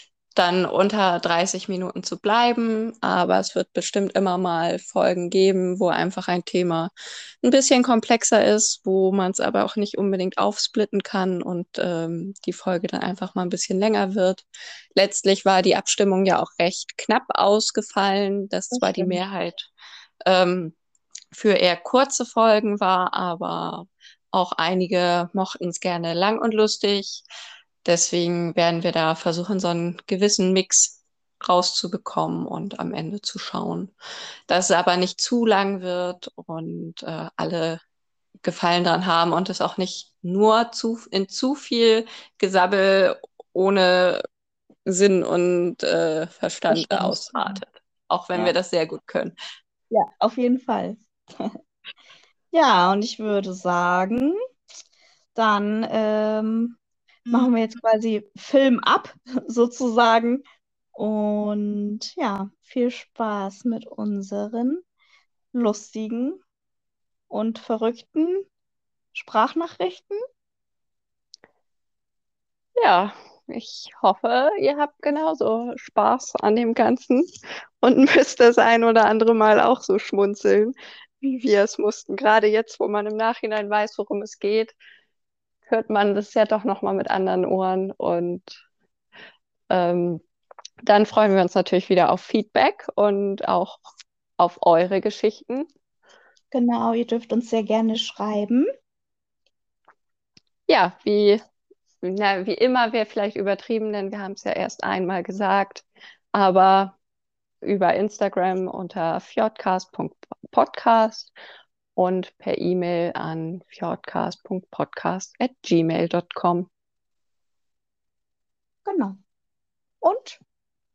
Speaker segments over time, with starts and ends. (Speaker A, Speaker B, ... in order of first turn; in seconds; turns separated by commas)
Speaker A: 0.3-6.9, Speaker A: 7.4-19.7, Speaker B: 18.7-19.2, Speaker A: 20.2-20.8, Speaker A: 21.3-27.2, Speaker A: 27.8-33.9, Speaker A: 34.5-37.8, Speaker A: 38.4-44.2, Speaker A: 44.9-49.4, Speaker B: 46.7-47.6, Speaker B: 49.9-51.5, Speaker B: 52.5-54.4, Speaker B: 55.4-56.8, Speaker B: 57.3-60.4, Speaker B: 61.0-64.8, Speaker B: 65.5-66.4, Speaker B: 67.3-68.5, Speaker B: 69.1-70.2, Speaker A: 72.8-77.3, Speaker A: 77.8-84.8, Speaker A: 85.7-88.6, Speaker A: 89.7-90.2, Speaker A: 90.8-93.8, Speaker A: 94.4-95.7, Speaker B: 96.5-98.7, Speaker A: 100.7-101.4, Speaker A: 102.0-107.0, Speaker A: 107.6-111.3, Speaker A: 112.0-116.7, Speaker B: 118.8-119.2, Speaker B: 120.0-120.4